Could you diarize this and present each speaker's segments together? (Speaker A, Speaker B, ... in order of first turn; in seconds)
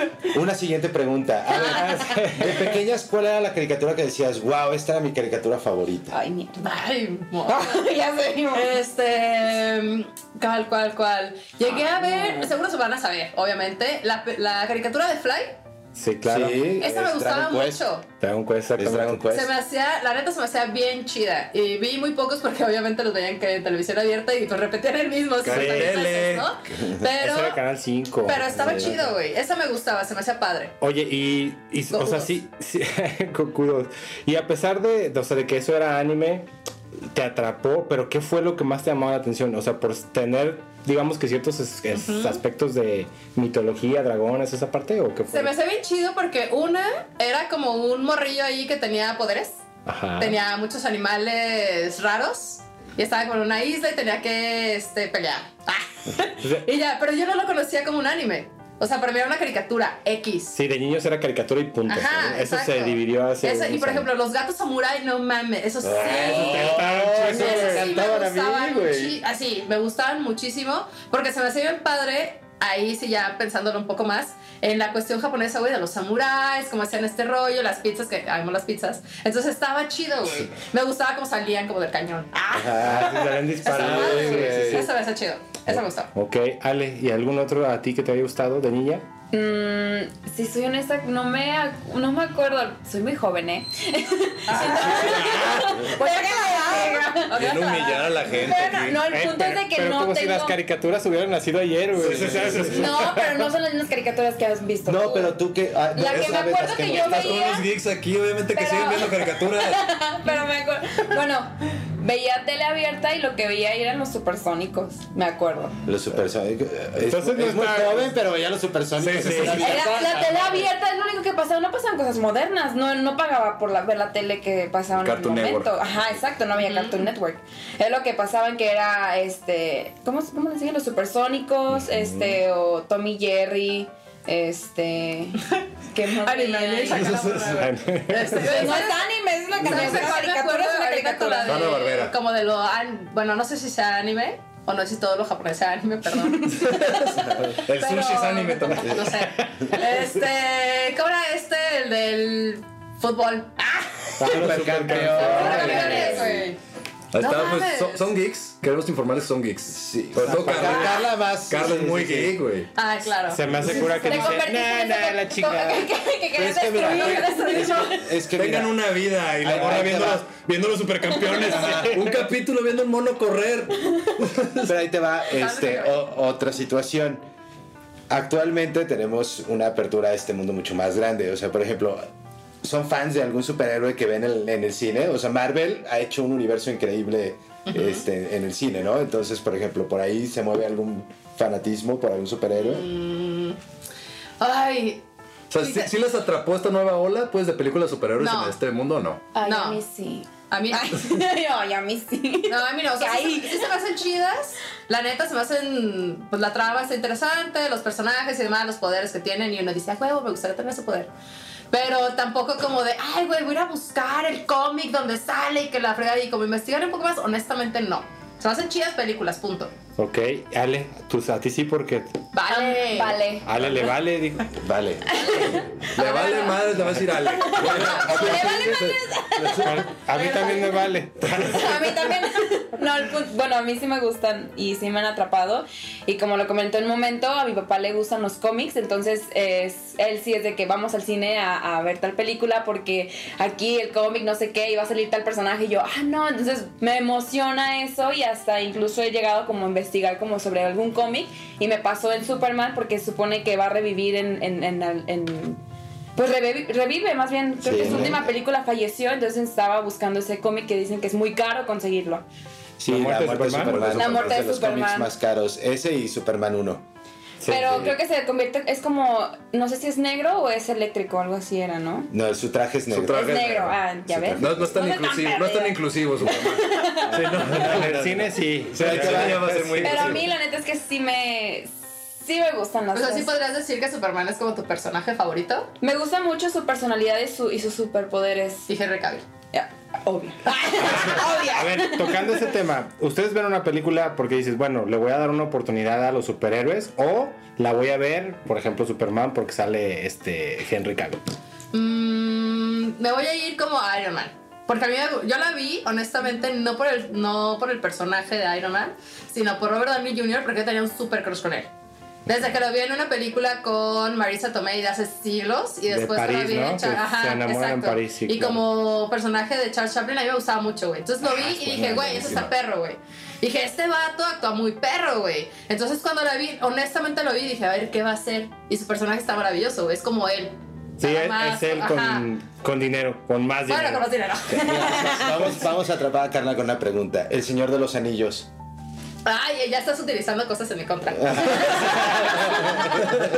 Speaker A: 0.2-6.2, 16.2-17.8, 18.8-19.5, 26.8-27.0, 28.5-29.0, 65.8-69.2, 82.5-84.9, 102.0-102.7, 104.8-107.5, 115.8-120.7, 148.8-149.2, 154.2-156.5, 159.7-162.4, 166.3-168.8, 169.4-170.2, 171.4-172.0, 174.6-177.2, 178.1-182.1, 182.6-192.9, 224.5-225.2, 257.6-258.3, 262.8-266.9, 272.1-273.4, 274.1-274.8, 277.5-277.9, 278.7-279.9, 334.6-338.5, 341.2-343.2
Speaker B: 1.6-2.0, 6.1-6.6, 7.5-8.7, 11.7-12.5, 89.3-97.3, 98.3-100.6, 102.7-105.4, 105.9-107.6, 108.5-115.7, 119.6-137.1, 138.4-141.6, 155.2-156.2, 163.8-167.9, 199.3-203.8, 222.5-223.5, 225.2-226.5, 227.4-229.7, 231.4-255.6, 256.1-262.2, 263.9-265.1, 267.5-272.1, 273.1-277.4, 279.8-281.7, 282.2-283.3, 285.8-288.7, 289.5-292.3
Speaker C: 1.7-2.8, 15.9-16.8, 18.2-19.2, 25.4-26.0, 27.1-28.9, 30.8-36.5, 37.1-45.5, 49.9-50.4, 56.4-56.6, 60.5-64.1, 66.2-67.9, 82.8-84.9, 85.7-89.0, 99.0-103.5, 117.0-118.1, 131.8-132.4, 137.5-138.5, 154.2-156.1, 160.2-160.9, 163.3-165.9, 171.7-172.1, 220.0-222.1, 223.4-224.6, 229.6-232.0, 257.8-258.1, 262.9-263.9, 267.4-267.9, 277.1-280.2, 290.8-301.3, 315.9-318.6, 321.2-322.5, 331.0-334.0
Speaker D: 6.6-7.8, 8.5-15.6, 16.8-18.0, 19.3-27.6, 28.2-30.7, 31.9-32.3, 41.9-42.4, 45.3-49.6, 50.2-60.6, 61.9-86.1, 94.5-98.4, 126.6-127.0, 136.2-139.0, 139.6-153.9, 155.3-156.6, 157.2-158.1, 162.8-164.2, 166.8-168.1, 175.4-176.1, 187.7-188.0, 192.6-193.6, 194.4-195.0, 195.6-195.9, 198.2-198.6, 199.4-199.8, 200.5-201.1, 202.5-211.1, 211.7-219.7, 222.3-223.2, 225.2-226.5, 230.1-230.9, 282.9-285.7, 288.7-289.2, 301.7-311.7, 312.3-332.3, 333.7-335.5, 339.2-343.2
Speaker E: 25.4-26.5, 94.7-95.8, 97.3-99.1, 102.0-102.8, 106.1-109.8, 119.0-119.9, 125.0-125.7, 136.9-137.5, 141.5-142.1, 146.5-149.1, 154.3-156.2, 157.1-162.7, 168.3-174.7, 195.5-199.2, 225.9-229.9, 263.6-264.4, 272.9-273.8, 274.4-280.2